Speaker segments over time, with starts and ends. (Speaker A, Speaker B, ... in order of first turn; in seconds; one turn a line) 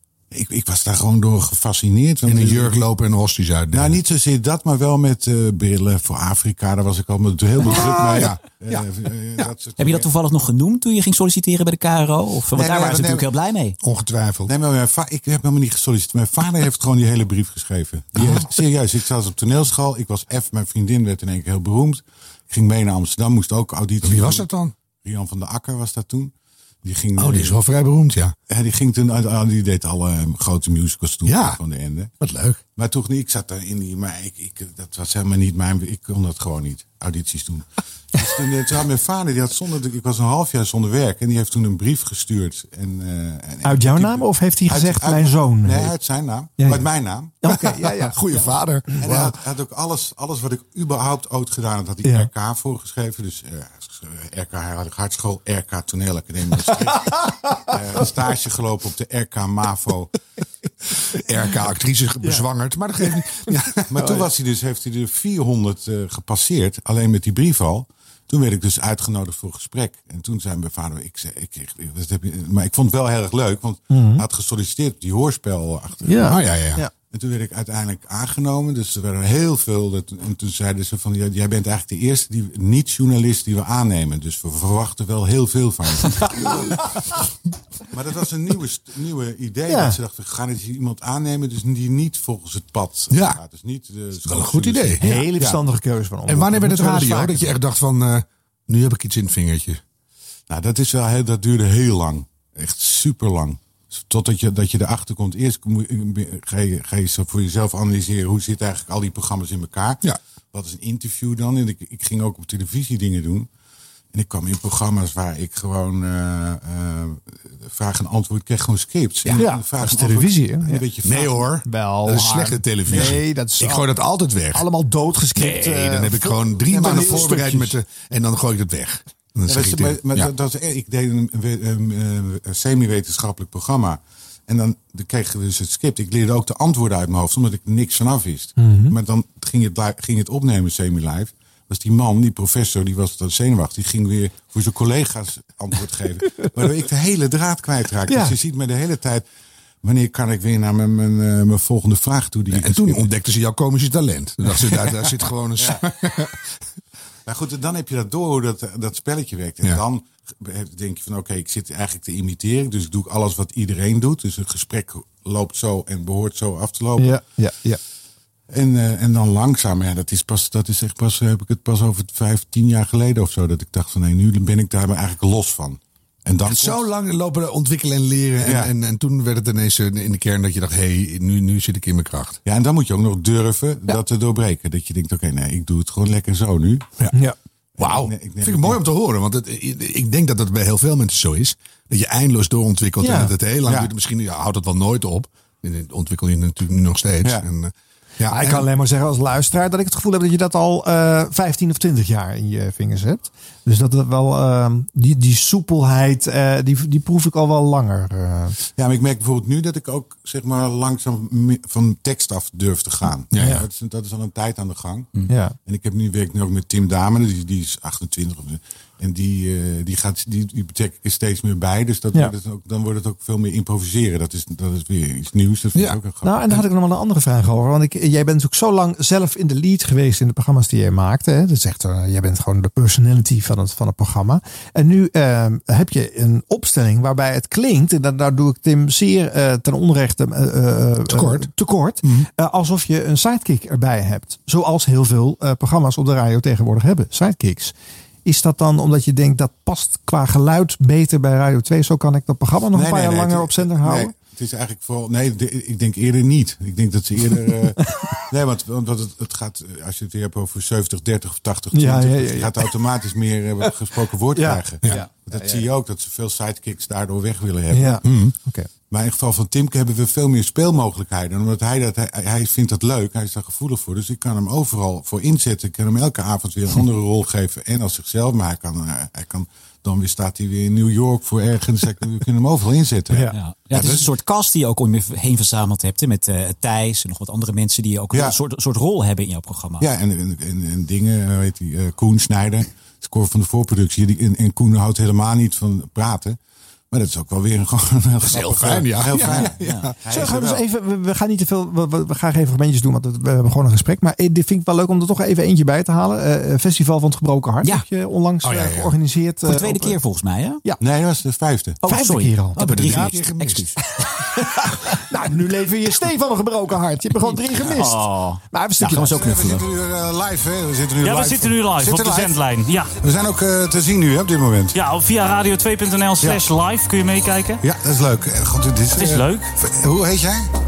Speaker A: 0.3-2.9
Speaker B: 2.2-4.0
Speaker A: 3.7-10.1
Speaker B: 7.6-8.9
Speaker C: 9.8-13.8
Speaker A: 12.5-13.3
Speaker B: 13.8-14.5
Speaker A: 14.4-24.5
Speaker B: 18.1-18.5
Speaker B: 24.0-24.7
Speaker A: 25.0-26.3
Speaker A: 26.8-27.6
Speaker B: 27.2-28.3
Speaker A: 28.5-32.1
Speaker B: 31.2-31.6
Speaker B: 32.2-32.6
Speaker A: 32.7-37.6
Speaker A: 38.1-47.4
Speaker D: 43.6-45.9
Speaker D: 46.6-48.2
Speaker B: 47.5-49.4
Speaker A: 49.0-57.1
Speaker D: 52.0-52.3
Speaker D: 57.0-57.2
Speaker A: 57.7-60.1
Speaker B: 61.2-63.9
Speaker D: 62.2-62.5
Speaker A: 63.9-76.2
Speaker D: 64.0-64.3
Speaker D: 73.9-74.2
Speaker D: 76.0-76.9
Speaker B: 76.3-76.8
Speaker A: 77.0-86.2
Speaker A: 87.9-95.6
Speaker D: 89.7-90.0
Speaker B: 93.1-93.4
Speaker B: 94.2-95.3
Speaker D: 95.0-97.5
Speaker B: 96.2-99.8
Speaker A: 100.5-113.5
Speaker A: 114.1-121.5
Speaker D: 119.3-120.8
Speaker B: 121.0-124.7
Speaker D: 121.6-124.0
Speaker D: 124.5-127.7
Speaker B: 125.3-130.3
Speaker A: 129.5-149.2
Speaker D: 138.6-138.9
Speaker D: 148.1-148.3
Speaker A: 149.8-153.1
Speaker B: 152.5-156.4
Speaker A: 157.2-167.2
Speaker D: 167.0-167.8
Speaker A: 168.5-176.8
Speaker B: 176.4-182.4
Speaker A: 178.4-178.7
Speaker A: 182.4-186.9
Speaker A: 187.8-188.8
Speaker B: 187.8-198.7
Speaker D: 193.0-193.4
Speaker D: 198.3-208.6
Speaker A: 208.7-215.1
Speaker B: 213.3-213.6
Speaker D: 213.4-213.6
Speaker D: 215.3-215.6
Speaker A: 215.7-226.6
Speaker B: 225.7-226.0
Speaker D: 226.2-247.7
Speaker B: 241.1-241.5
Speaker B: 242.0-242.3
Speaker D: 248.2-254.1
Speaker A: 252.7-257.8
Speaker D: 257.8-258.2
Speaker A: 258.3-268.0
Speaker D: 261.7-262.7
Speaker D: 264.3-265.7
Speaker D: 267.7-268.7
Speaker B: 268.0-268.3
Speaker A: 268.9-283.9
Speaker D: 283.1-283.4
Speaker C: 283.3-289.8
Speaker B: 283.7-284.0
Speaker A: 289.8-296.4
Speaker A: 296.9-300.6
Speaker B: 298.2-300.0
Speaker C: 299.6-299.9
Speaker D: 300.1-310.0
Speaker B: 308.4-308.9
Speaker C: 309.4-310.6
Speaker A: 310.8-311.8
Speaker C: 311.8-313.8
Speaker D: 311.8-313.1
Speaker B: 312.6-313.8
Speaker D: 314.6-319.4
Speaker C: 317.6-319.6
Speaker A: 318.9-322.3
Speaker E: 321.0-322.9
Speaker A: 323.0-324.8
Speaker E: 324.7-327.6
Speaker A: 327.6-330.5
Speaker E: 328.9-329.5